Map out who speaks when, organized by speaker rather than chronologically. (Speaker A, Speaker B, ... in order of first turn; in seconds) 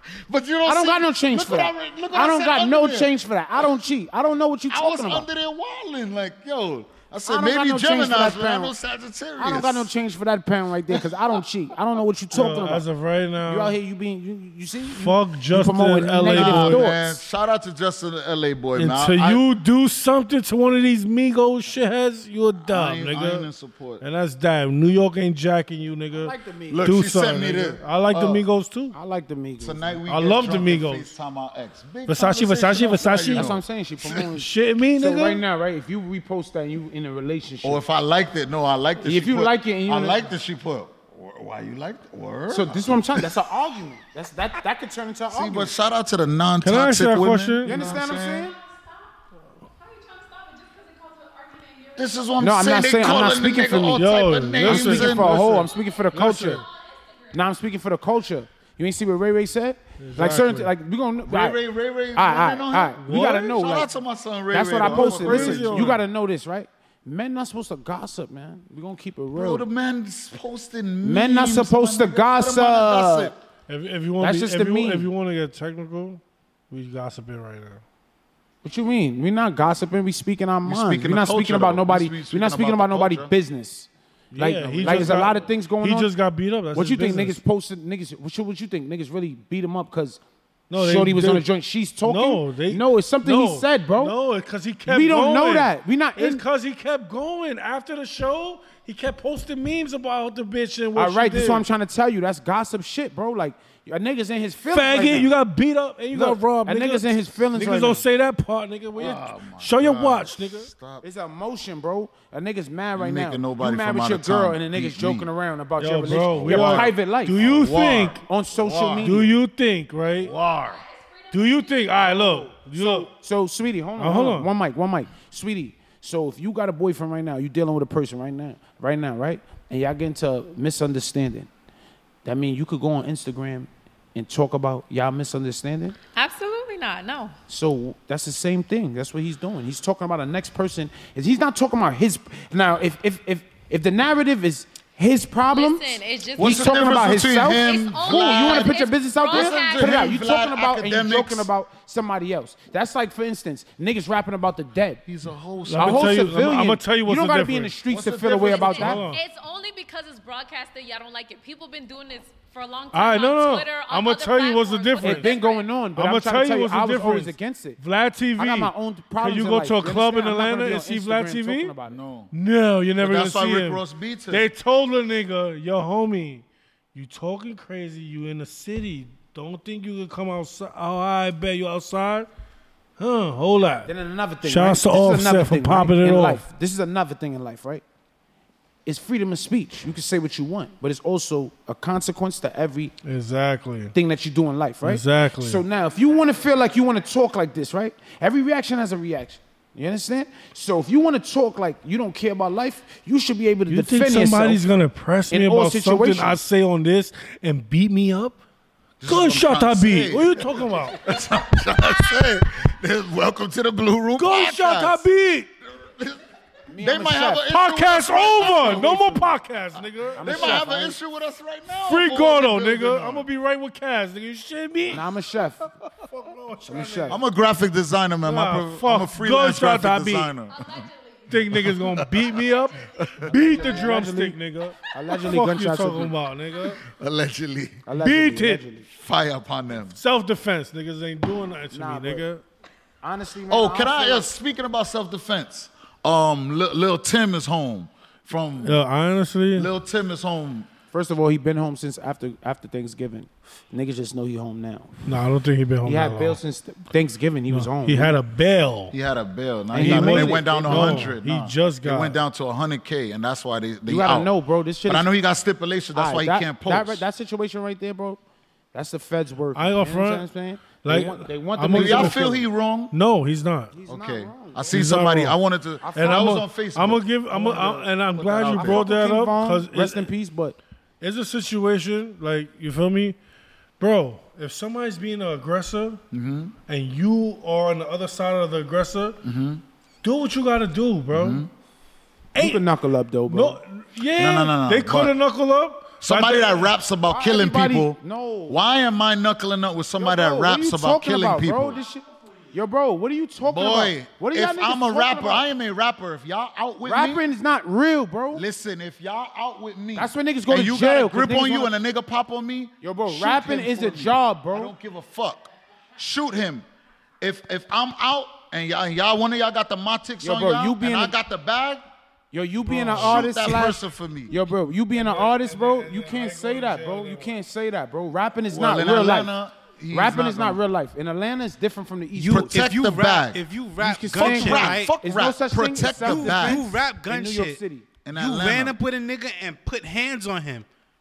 Speaker A: 0.2-3.7, 4.7-9.9, 10.9-11.2, 16.2-19.4, 22.6-24.0, 26.7-28.4, 29.6-34.3, 37.6-43.5, 45.3-48.5, 52.0-55.7, 61.3-66.0, 69.3-73.4, 80.6-83.3, 84.8-85.2, 108.9-111.0, 113.0-115.3, 116.2-119.4, 120.2-120.8, 146.3-151.5, 155.1-156.3, 157.9-159.1, 171.8-172.3, 173.0-174.5, 209.0-215.0, 215.7-216.2, 216.7-219.3, 220.1-223.3, 227.1-230.9, 231.5-232.3, 233.0-233.3, 236.8-237.8, 238.9-240.0, 243.5-248.8, 249.5-250.7, 258.9-264.3, 264.9-267.0, 271.7-272.9, 273.9-277.0, 278.2-278.9, 286.1-286.6, 289.2-289.6, 291.1-291.5, 294.1-295.1, 296.0-301.8, 303.4-307.2, 308.3-316.6, 317.2-321.8, 322.7-324.4, 328.5-330.6, 332.3-333.4, 334.1-336.6, 338.0-338.7
Speaker B: 0.7-5.2, 7.2-8.7, 9.4-12.8, 13.4-17.2, 26.1-26.9, 28.9-30.0, 33.2-37.8, 39.0-40.3, 42.5-45.7, 47.6-48.5, 52.4-56.6, 57.3-61.6, 62.1-63.9, 64.5-69.6, 71.0-73.3, 74.2-75.1, 78.6-86.1, 86.7-90.2, 90.7-94.1, 94.9-96.4, 100.9-105.3, 106.1-108.0, 111.0-117.4, 118.1-119.2, 122.0-131.5, 132.2-136.0, 137.5-155.0, 155.8-159.1, 165.0-167.8, 168.4-172.0, 183.8-187.8, 188.8-192.9, 193.9-204.7, 205.3-206.4, 216.7-217.4, 218.3-219.1, 220.2-220.9, 224.9-225.6, 226.7-227.2, 233.3-234.4, 234.9-236.1, 237.8-238.9, 241.7-242.2, 243.0-244.3, 250.9-255.1, 255.8-258.1, 259.7-261.1, 263.9-265.1, 265.9-268.2, 268.7-272.4, 273.7-274.8, 275.8-276.4, 277.3-280.6, 292.4-293.6, 297.1-298.6, 300.0-305.4, 306.8-308.4, 309.9-311.7, 312.8-314.7, 320.2-321.1, 322.3-329.3, 329.9-332.5, 333.8-337.9
Speaker C: 12.3-13.8, 14.9-16.8, 18.8-23.5, 24.0-28.9, 30.1-31.1, 32.1-33.5, 34.3-35.4, 46.6-47.9, 53.9-56.6, 60.0-60.7, 63.0-63.6, 64.8-66.0, 73.7-77.8, 84.3-87.4, 90.7-91.5, 92.0-101.6, 104.7-110.7, 115.8-118.2, 119.0-120.4, 121.3-123.1, 124.0-124.5, 155.7-157.7, 158.8-159.2, 162.9-165.3, 165.9-171.7, 172.3-182.3, 183.0-183.9, 184.4-186.4, 193.0-193.9, 194.8-195.6, 203.7-208.4, 209.0-211.0, 214.2-215.5, 217.5-220.6, 221.8-225.1, 226.0-227.2, 228.2-230.3, 231.3-236.8, 238.0-238.7, 239.9-242.4, 248.6-249.7, 255.0-256.4, 257.5-258.9, 259.7-262.2, 269.5-270.2, 270.8-272.2, 272.9-273.7, 274.7-275.4, 275.9-280.1, 281.0-283.1, 283.8-286.0, 286.7-289.2, 290.0-291.4, 292.3-292.6, 293.3-296.7, 322.7-323.2, 324.9-327.3
Speaker D: 48.3-52.2, 55.7-57.4, 120.3-122.4, 136.1-137.3, 145.4-146.8, 147.5-150.2, 158.5-165.7
Speaker E: 332.1-334.9, 336.0-337.6, 338.1-340.6